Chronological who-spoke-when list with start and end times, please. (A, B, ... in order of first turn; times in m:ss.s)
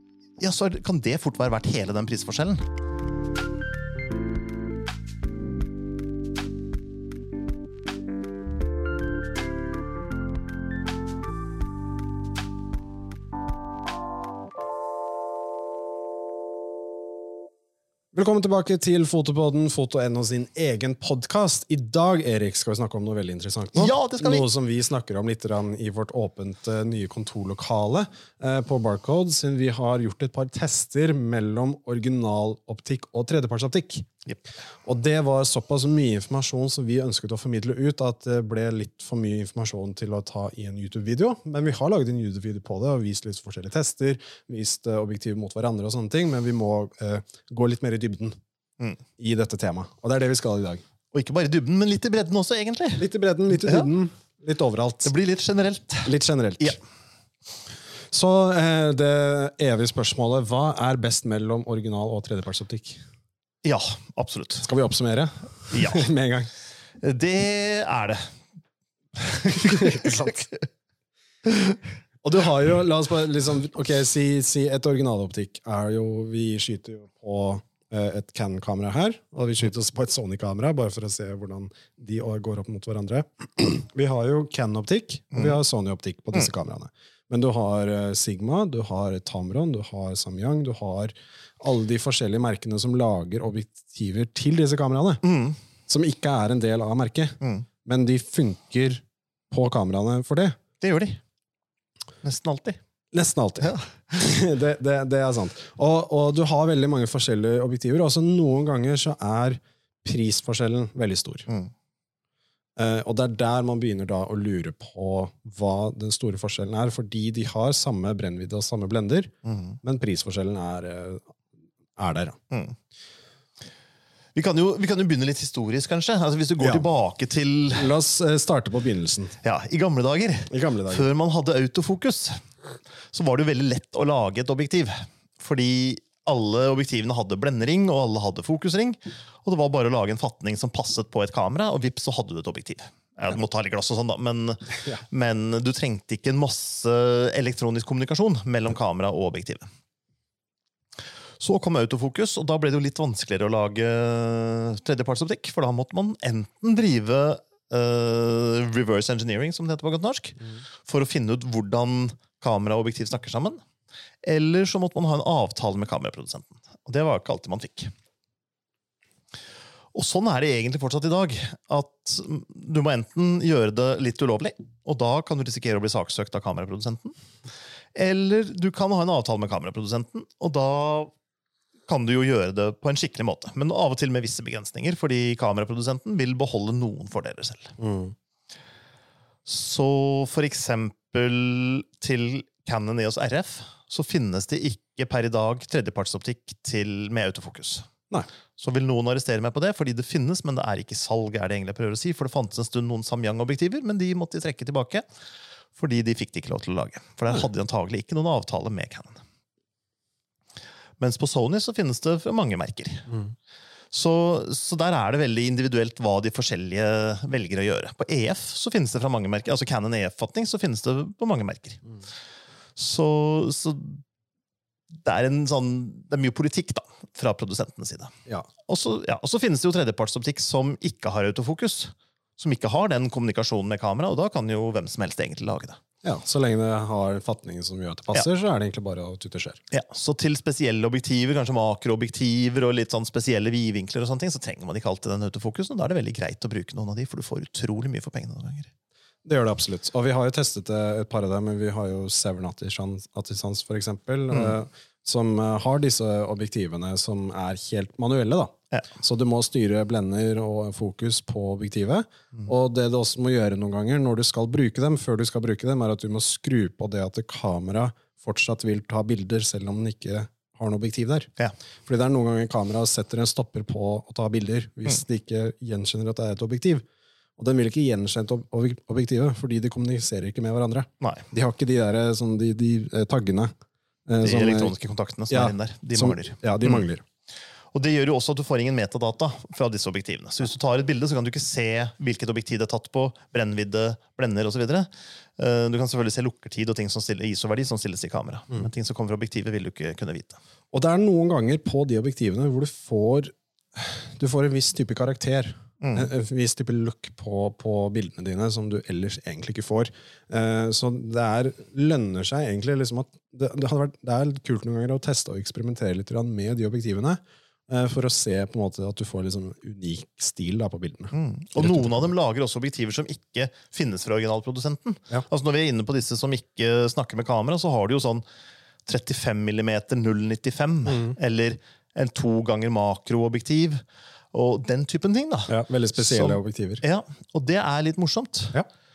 0:00.4-0:02.6 A
0:18.1-0:34.1 B
0:23.7-0:24.4 A
0:34.8-0:48.3 B
0:49.2-0:50.8 B
0:51.1-0:53.0 A
0:53.0-0:55.1 B
0:53.6-0:53.9 A
0:55.0-0:56.8 A
0:56.0-0:56.8 B
0:58.1-1:03.0 B
1:03.6-1:04.7 A
1:04.6-1:06.5 B
1:05.7-1:06.1 A
1:07.0-1:08.3 A
1:09.2-1:10.6 A
1:09.7-1:10.3 B
1:12.2-1:35.2 B
1:35.2-1:35.6 A
1:35.9-1:40.6 B
1:37.4-1:37.6 A
1:40.8-1:41.2 A
1:42.2-1:42.8 A
1:43.1-1:51.5 B
1:43.6-1:43.9 A
1:52.8-2:01.4 B
1:59.4-1:59.8 A
2:02.0-2:02.4 B
2:02.5-2:02.8 A
2:04.3-2:07.9 A
2:06.6-2:06.9 B
2:07.7-2:09.4 B
2:09.4-2:12.4 A
2:10.5-2:11.1 B
2:13.1-2:29.7 A
2:31.4-2:43.6 A
2:44.2-2:47.9 A
2:49.9-2:57.1 A
2:57.9-3:01.1 A
3:01.9-3:07.7 A
3:07.8-3:08.1 B
3:09.4-3:17.9 A
3:18.6-3:25.0 A
3:25.8-3:29.2 A
3:31.0-3:33.2 A
3:33.9-3:41.8 A
3:42.8-3:44.0 A
3:45.0-3:48.1 A
3:48.7-3:55.8 A
3:56.0-3:59.6 B
3:59.7-4:08.7 A
4:09.2-4:31.3 B
4:31.8-4:36.8 B
4:37.4-4:43.5 B
4:41.0-4:41.2 A
4:44.1-4:44.7 B
4:44.2-4:46.8 A
4:45.3-4:47.0 B
4:47.7-5:00.4 A
5:00.7-5:22.1 B
5:05.8-5:06.1 A
5:21.1-5:28.2 A
5:28.8-5:33.8 A
5:30.9-5:31.1 B
5:34.3-5:38.6 A
5:35.5-5:36.8 B